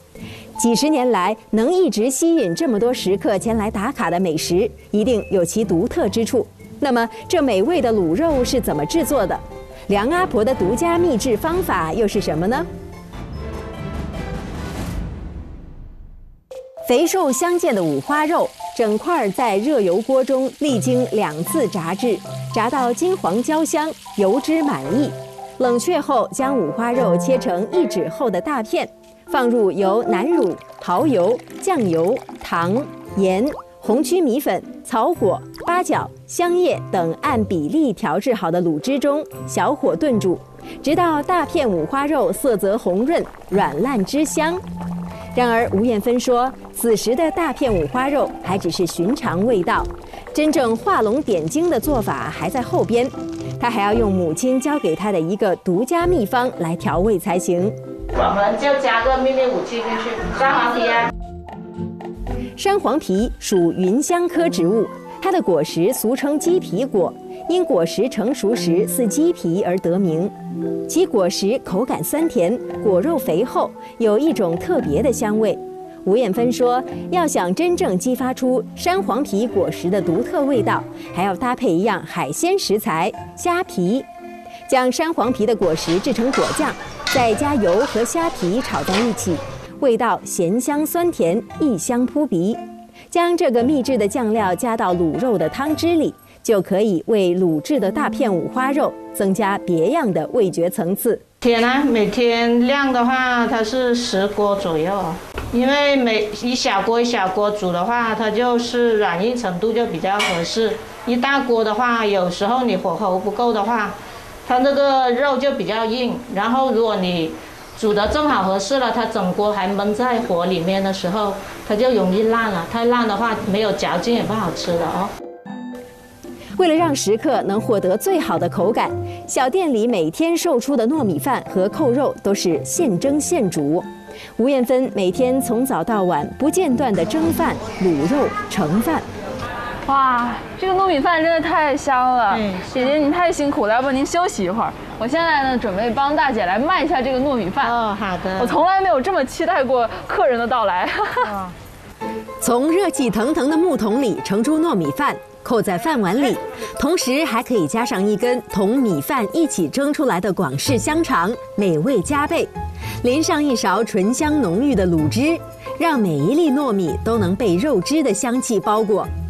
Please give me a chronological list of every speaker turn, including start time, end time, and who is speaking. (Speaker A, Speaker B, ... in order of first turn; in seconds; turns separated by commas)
Speaker A: 0.6-12.7, Speaker A: 16.9-44.6, Speaker A: 45.3-57.8, Speaker B: 58.1-61.1, Speaker A: 62.6-70.3, Speaker A: 70.9-84.1, Speaker A: 84.7-101.2, Speaker B: 101.4-125.1, Speaker A: 126.6-139.1, Speaker C: 139.9-147.8, Speaker B: 142.3-142.8, Speaker B: 147.6-148.6, Speaker C: 148.4-151.3, Speaker B: 151.2-151.6, Speaker A: 152.4-162.5, Speaker A: 163.0-169.1